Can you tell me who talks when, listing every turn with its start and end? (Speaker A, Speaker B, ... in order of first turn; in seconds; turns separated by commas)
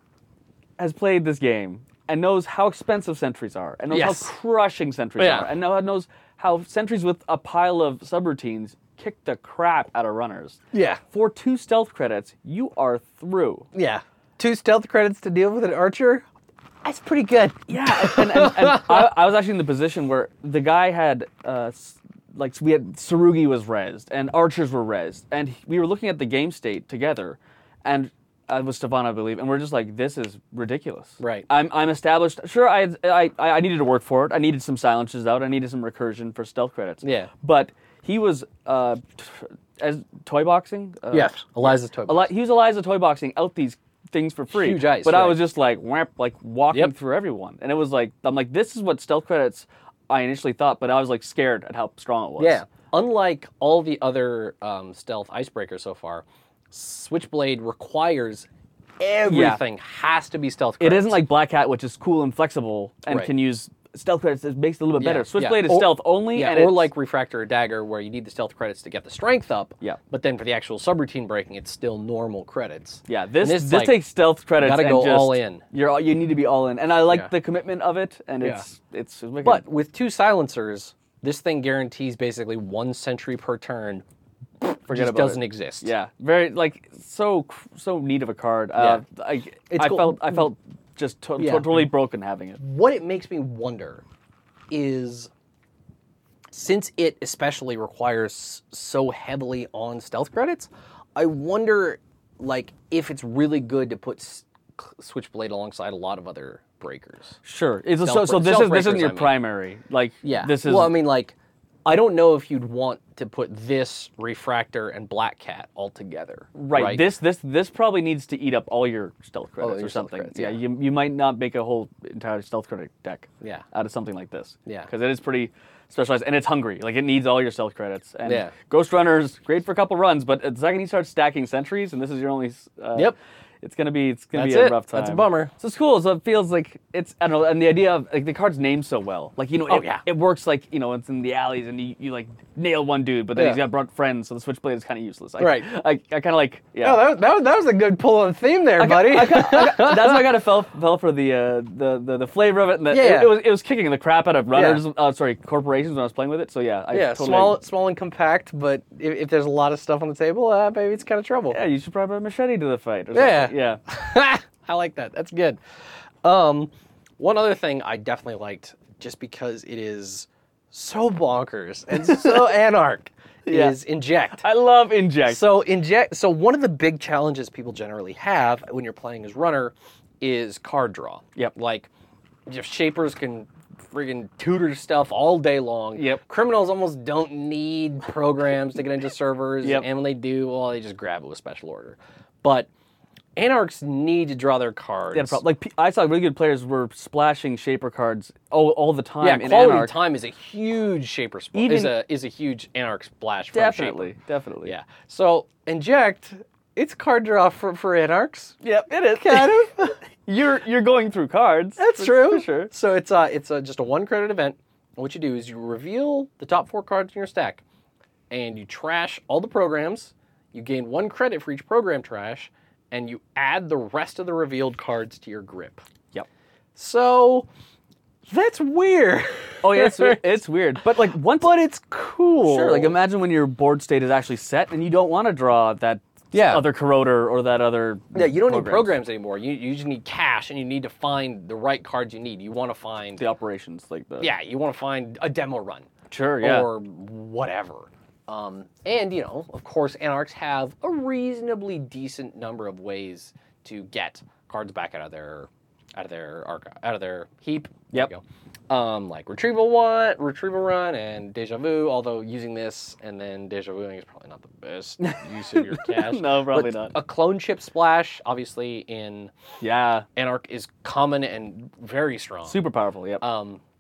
Speaker A: 0.8-10.6, Speaker B: 3.9-4.3, Speaker B: 5.2-5.5, Speaker B: 10.7-11.0, Speaker A: 11.1-13.7, Speaker B: 13.7-16.2, Speaker B: 16.8-19.1, Speaker A: 17.7-52.6, Speaker B: 31.2-31.4, Speaker B: 37.0-37.3, Speaker B: 41.1-42.3, Speaker B: 44.5-45.4, Speaker B: 52.4-58.5, Speaker B: 59.0-61.2, Speaker A: 59.3-59.6, Speaker A: 60.8-66.9, Speaker B: 65.0-74.0, Speaker A: 73.1-79.6, Speaker B: 74.6-75.6, Speaker B: 79.4-84.0, Speaker B: 84.6-85.9, Speaker A: 84.9-92.6, Speaker B: 88.8-89.0, Speaker B: 89.7-90.5, Speaker B: 91.4-91.9, Speaker B: 92.6-94.0, Speaker B: 94.7-95.3, Speaker B: 96.5-107.4, Speaker A: 107.4-110.9, Speaker B: 108.0-109.4, Speaker B: 110.2-117.0, Speaker A: 116.5-147.0, Speaker B: 119.6-120.6, Speaker B: 128.2-128.5, Speaker B: 134.3-135.5, Speaker B: 139.7-140.0, Speaker B: 143.3-143.6, Speaker B: 145.4-145.7, Speaker B: 146.8-150.2, Speaker A: 148.8-157.6, Speaker B: 152.9-153.4, Speaker B: 154.5-154.8, Speaker B: 156.9-161.6, Speaker A: 161.5-163.8, Speaker B: 163.1-165.6, Speaker B: 166.2-174.4, Speaker A: 171.9-172.5, Speaker A: 173.4-173.8, Speaker A: 174.4-175.4, Speaker B: 175.2-181.9, Speaker B: 182.5-192.7, Speaker A: 185.9-186.2, Speaker B: 193.3-195.4, Speaker A: 195.1-199.9, Speaker B: 199.2-204.1, Speaker A: 201.5-201.9, Speaker A: 203.5-204.7, Speaker B: 204.6-208.6, Speaker A: 208.6-212.7, Speaker B: 209.1-209.9, Speaker B: 211.8-217.6, Speaker B: 218.3-225.8, Speaker B: 226.8-227.5, Speaker B: 228.3-230.2, Speaker A: 229.6-231.5, Speaker B: 230.9-232.9, Speaker A: 232.4-238.9, Speaker B: 236.3-236.6, Speaker B: 238.1-243.2, Speaker A: 243.2-244.3, Speaker B: 244.2-269.3, Speaker A: 246.1-246.7, Speaker A: 265.0-266.9, Speaker A: 269.6-270.1, Speaker B: 270.1-272.6, Speaker A: 272.5-273.2, Speaker B: 273.2-273.6